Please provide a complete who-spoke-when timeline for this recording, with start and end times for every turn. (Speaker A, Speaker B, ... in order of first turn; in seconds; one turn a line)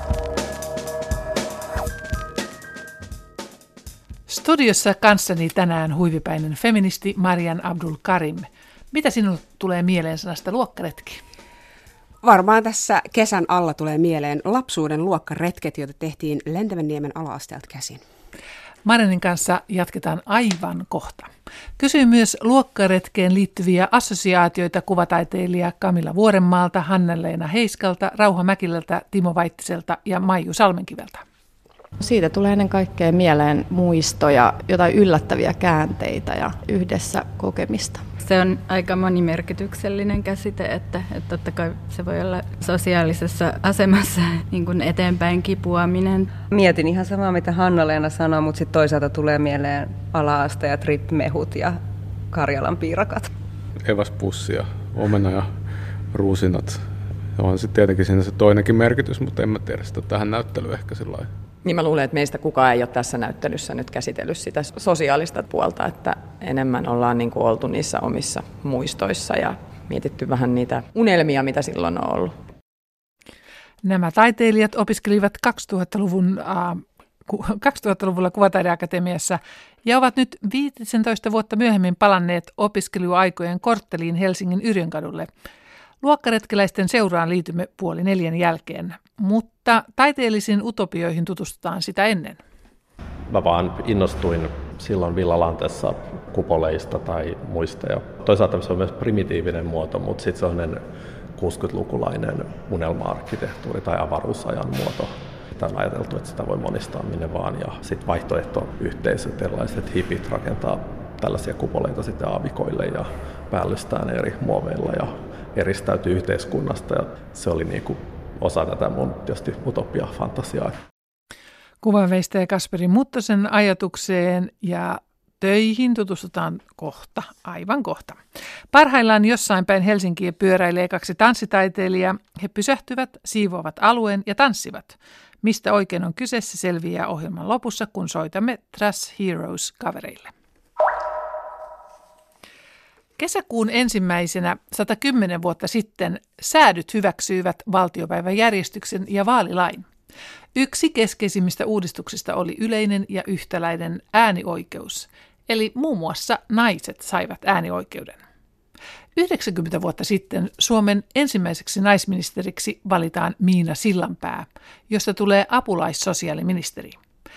Speaker A: 4.3-11.2
Speaker B: 12.2-18.0
Speaker A: 18.9-31.2
Speaker C: 32.0-38.1
Speaker D: 38.2-46.3
Speaker E: 46.4-51.8
Speaker E: 52.3-53.3
Speaker F: 53.8-61.3
Speaker G: 61.6-72.4
Speaker A: 73.8-85.3
Speaker A: 86.0-92.4
Speaker H: 93.3-100.8
Speaker H: 101.4-120.8
Speaker A: 121.8-128.2
Speaker A: 128.7-140.3
Speaker A: 143.2-149.9
Speaker A: 150.6-158.2
Speaker A: 159.2-167.0